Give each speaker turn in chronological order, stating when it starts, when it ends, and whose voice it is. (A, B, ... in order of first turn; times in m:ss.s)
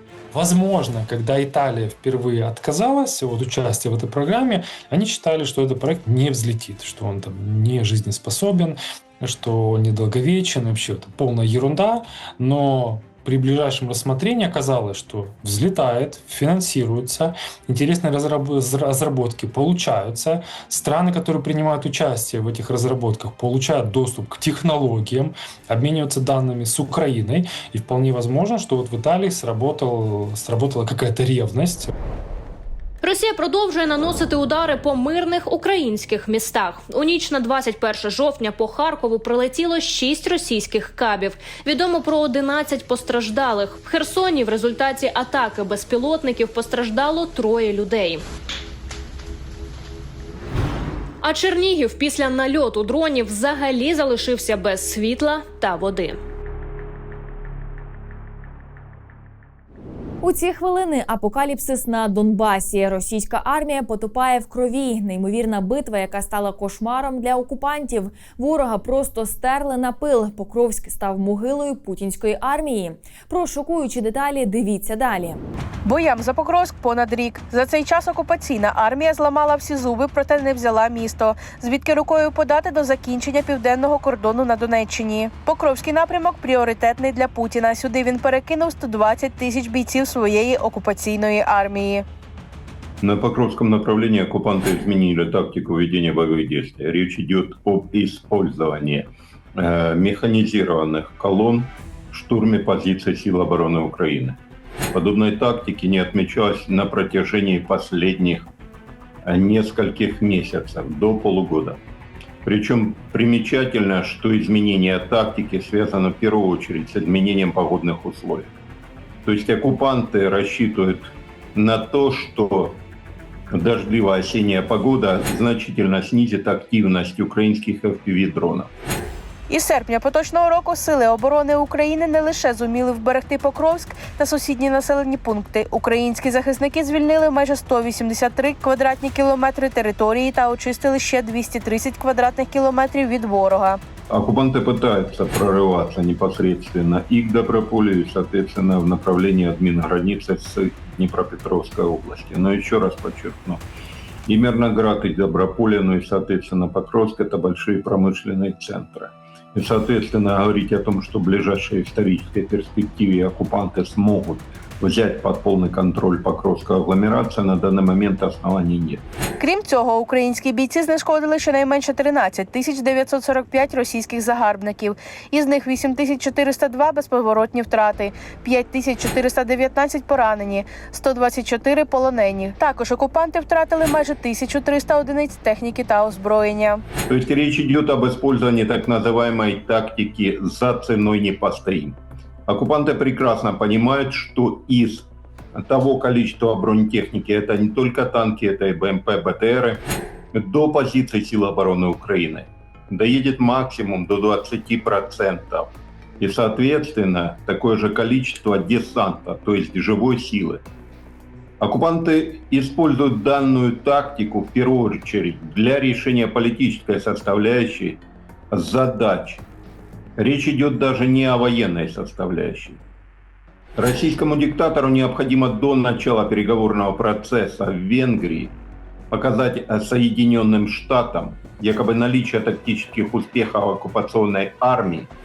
0:00.3-0:31.9 A
0:33.0-0:48.2 B
0:51.2-0:56.2 B
1:00.2-1:15.4 C
1:15.8-1:32.0 D
1:33.0-1:44.4 E
1:44.9-1:48.5 E
1:49.2-1:51.8 E
1:52.4-1:58.5 E
1:59.2-2:02.8 E
2:03.5-2:08.7 E
2:09.5-2:23.8 D
2:24.1-2:33.6 E
2:34.3-2:49.0 E
2:49.4-3:06.8 D
3:07.1-3:30.6 E
3:31.6-3:39.4 E
3:40.2-3:42.8 E
3:43.8-3:48.5 E
3:49.1-3:55.1 E